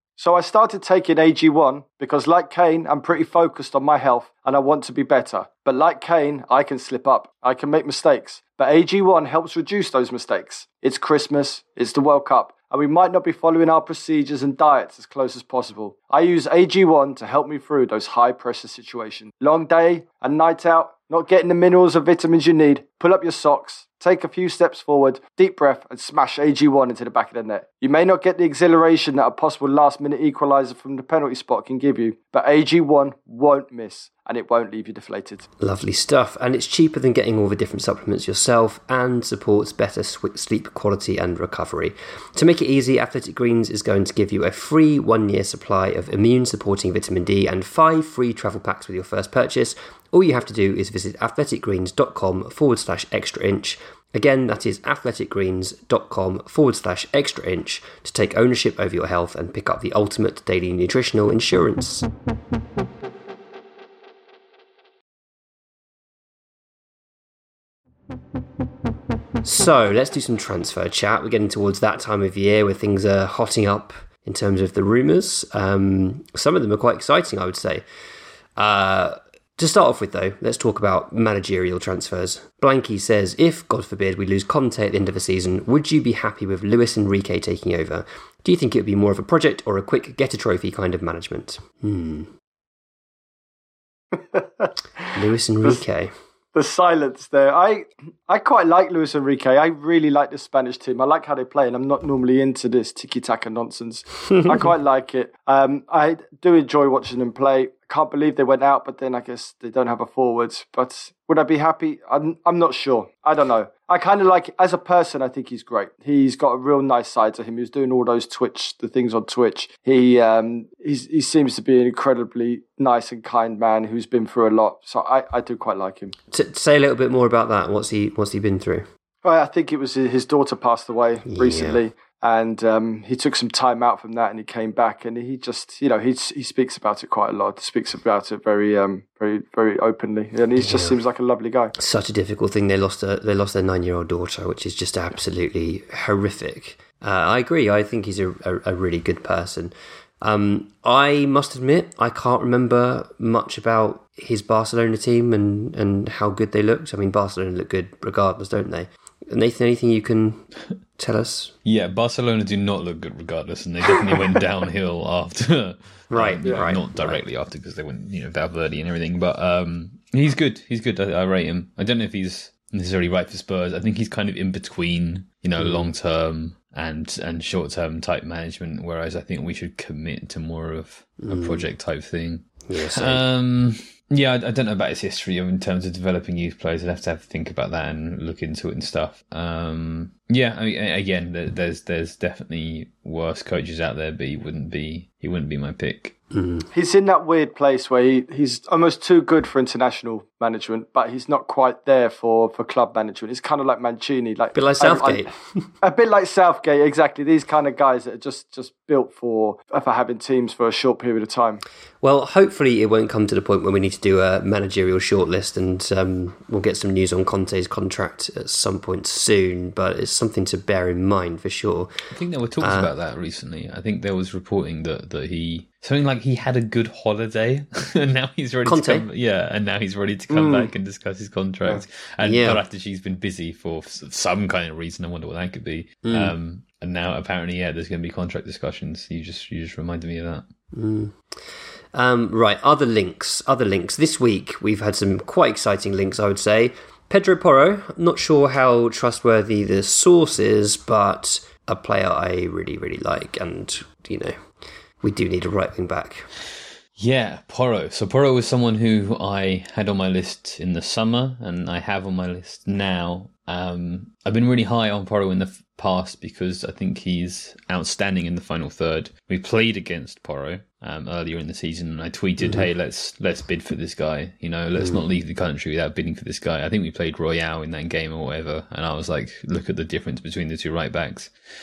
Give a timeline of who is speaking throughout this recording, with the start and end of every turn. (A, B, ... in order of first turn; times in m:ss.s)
0:00.2-0:35.5 A
0:35.6-1:02.1 B
1:09.4-1:17.8 B
1:18.6-1:32.3 B
1:34.1-1:35.8 A
1:35.2-1:36.1 B
1:36.6-2:06.1 A
1:44.3-1:44.6 B
2:06.3-2:08.9 B
2:09.2-2:21.7 A
2:11.3-2:11.8 B
2:20.6-2:21.0 B
2:21.8-2:40.4 B
2:41.0-2:41.5 B
2:41.6-3:16.1 C
2:46.1-2:47.2 B
2:46.4-2:46.7 A
2:55.6-2:55.9 B
3:01.2-3:01.7 B
3:02.7-3:03.2 B
3:16.3-3:16.7 B
3:16.7-3:25.2 A
3:24.5-3:25.6 B
3:25.8-3:31.6 A
3:32.0-3:41.9 B
3:42.1-4:00.4 C
3:42.6-3:42.9 B
3:48.6-3:49.1 B
3:50.3-3:50.7 A
3:52.2-3:52.6 B
3:56.0-3:56.4 B
4:00.7-4:01.2 B
4:01.9-4:14.3 B
4:15.0-4:16.3 B
4:17.0-4:41.3 C
4:32.4-4:32.7 B
4:34.8-4:35.1 B